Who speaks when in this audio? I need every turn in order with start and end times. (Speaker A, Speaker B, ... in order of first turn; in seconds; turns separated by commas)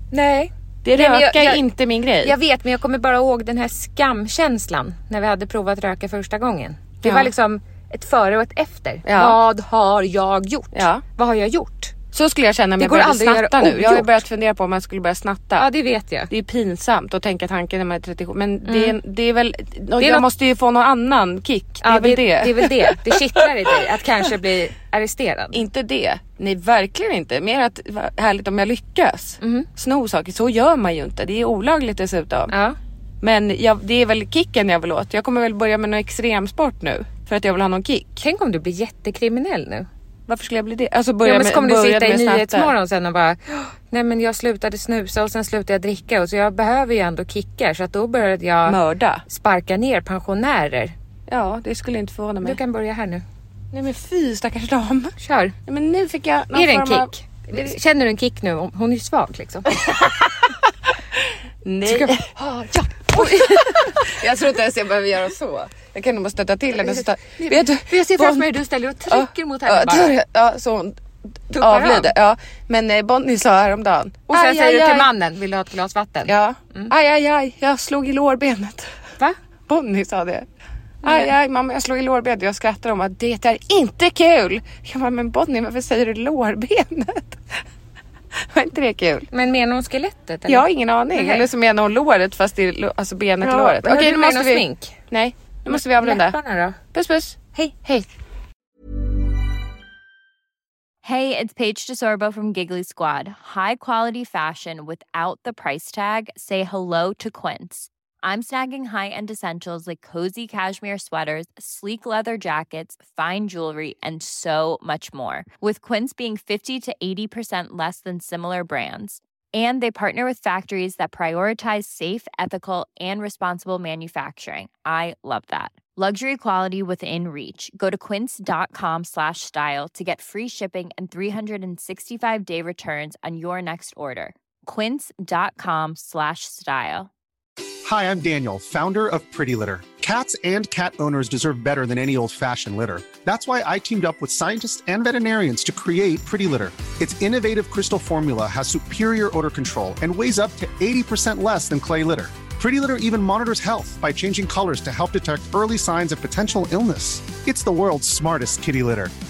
Speaker A: 0.1-1.6, Speaker B: 0.8-2.3, Speaker A: 2.2-11.9, Speaker B: 7.0-7.3, Speaker B: 9.0-9.4, Speaker B: 10.7-11.0, Speaker B: 12.1-15.7, Speaker A: 12.8-14.2, Speaker A: 15.6-16.3, Speaker B: 16.3-23.7, Speaker A: 18.6-19.0, Speaker A: 20.0-20.3, Speaker A: 21.8-25.6, Speaker B: 25.5-32.5, Speaker A: 29.4-29.7, Speaker A: 32.5-32.8, Speaker B: 33.2-38.2, Speaker A: 38.2-39.9, Speaker B: 40.3-42.7, Speaker A: 41.2-50.9, Speaker B: 48.7-49.2, Speaker B: 51.3-52.6, Speaker A: 52.4-53.2, Speaker B: 53.7-57.7, Speaker A: 55.2-55.5, Speaker A: 56.5-60.0, Speaker B: 61.2-62.2, Speaker A: 61.9-64.1, Speaker B: 63.1-68.5, Speaker A: 66.9-70.1, Speaker B: 69.1-71.0, Speaker A: 71.5-72.1, Speaker B: 71.5-75.1, Speaker A: 74.3-76.9, Speaker B: 76.2-79.0, Speaker B: 79.7-80.5, Speaker A: 81.0-81.3, Speaker B: 81.0-87.6, Speaker B: 88.3-89.3, Speaker A: 89.3-91.5, Speaker B: 90.5-96.4, Speaker A: 93.4-95.0, Speaker A: 95.7-96.8, Speaker B: 96.9-98.1, Speaker C: 101.0-137.1, Speaker D: 137.8-159.1